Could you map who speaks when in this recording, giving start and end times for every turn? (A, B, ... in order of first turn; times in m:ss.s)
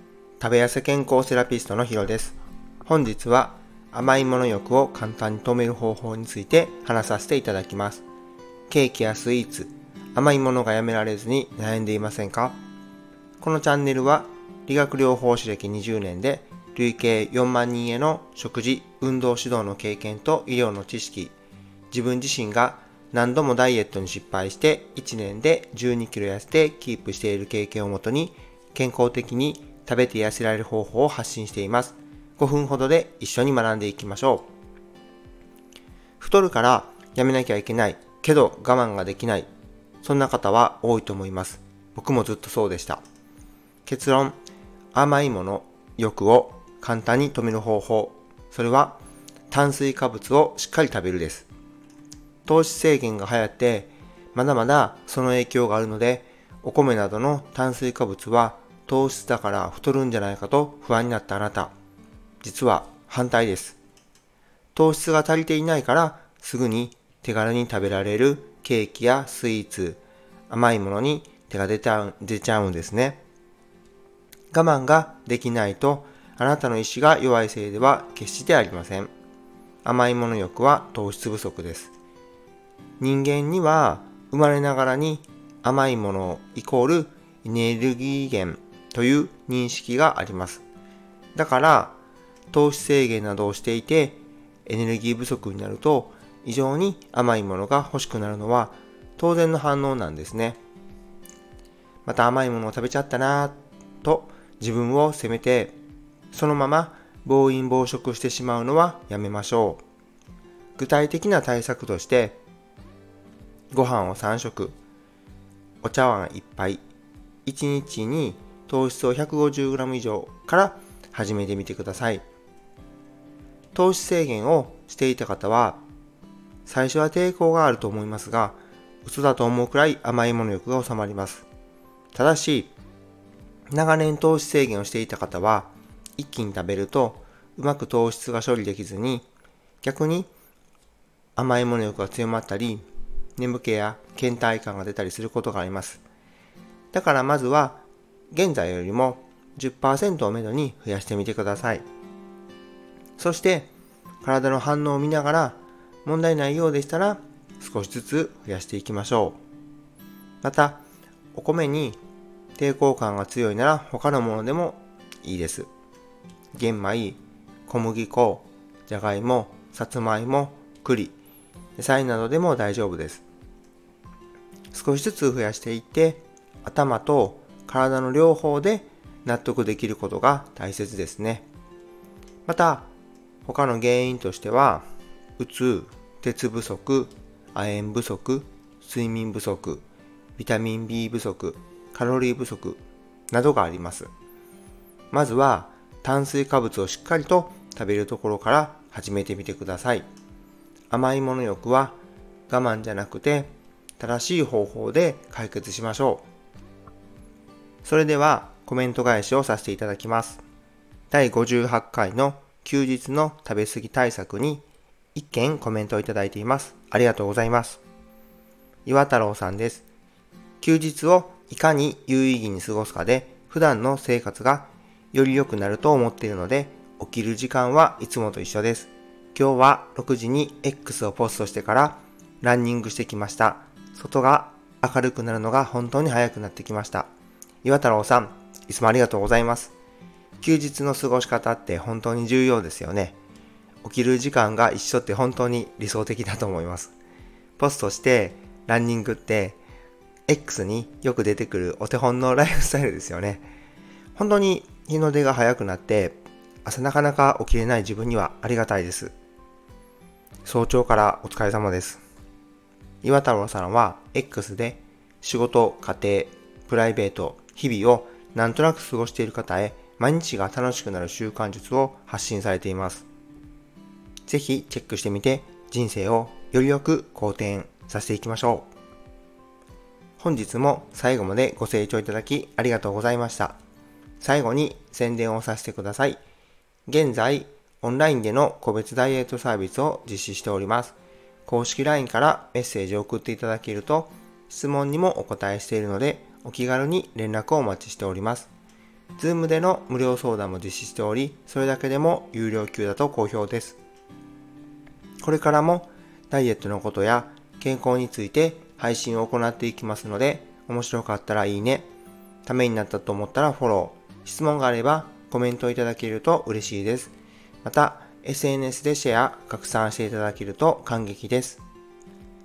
0:00.4-0:08.0 A
0:08.7-0:12.6 A
0:13.4-0:21.3 A
0:21.9-0:34.5 A
0:36.2-0:39.5 A
0:40.0-0:43.0 A
0:43.9-0:44.4 A
0:44.9-0:49.0 A
0:49.5-0:51.5 A
0:52.5-1:01.7 A
1:02.4-1:03.8 A
1:04.8-1:13.2 A
1:14.5-1:19.1 A
1:19.8-1:21.9 A
1:23.0-1:30.6 A
1:31.4-1:32.0 A
1:32.5-1:40.6 A
1:42.0-1:45.8 A
1:46.3-1:49.8 A
1:50.8-1:52.4 A
1:53.7-1:54.8 A
1:55.8-1:56.8 A
1:57.4-2:02.2 A
2:03.7-2:05.8 A
2:06.7-2:11.4 A
2:12.1-2:12.7 A
2:13.7-2:19.3 A
2:19.8-2:20.3 A
2:21.4-2:22.8 A
2:23.4-2:26.0 A
2:26.9-2:31.8 A
2:33.2-2:39.4 A
2:40.4-2:40.8 A
2:41.3-2:42.0 A
2:42.6-2:45.7 A
2:46.5-2:51.2 A
2:51.8-2:53.2 A
2:54.7-3:01.5 A
3:02.5-3:02.9 A
3:03.4-3:04.9 A
3:05.4-3:09.8 A
3:10.4-3:14.1 A
3:15.1-3:20.1 A
3:20.9-3:22.0 A
3:22.5-3:26.2 A
3:27.8-3:30.4 A
3:31.1-3:34.6 A
3:35.2-3:37.8 A
3:38.9-3:39.8 A
3:40.6-3:57.1 A
3:57.6-3:59.7 A
4:00.4-4:03.2 A
4:03.8-4:06.9 A
4:07.6-4:09.6 A
4:10.3-4:13.5 A
4:14.2-4:19.1 A
4:20.4-4:22.0 A
4:23.0-4:33.1 A
4:34.3-4:38.7 A
4:40.2-4:43.6 A
4:44.2-4:46.2 A
4:46.9-4:51.0 A
4:51.5-4:58.5 A
4:59.2-5:03.8 A
5:05.2-5:11.9 A
5:12.4-5:17.1 A
5:17.6-5:21.6 A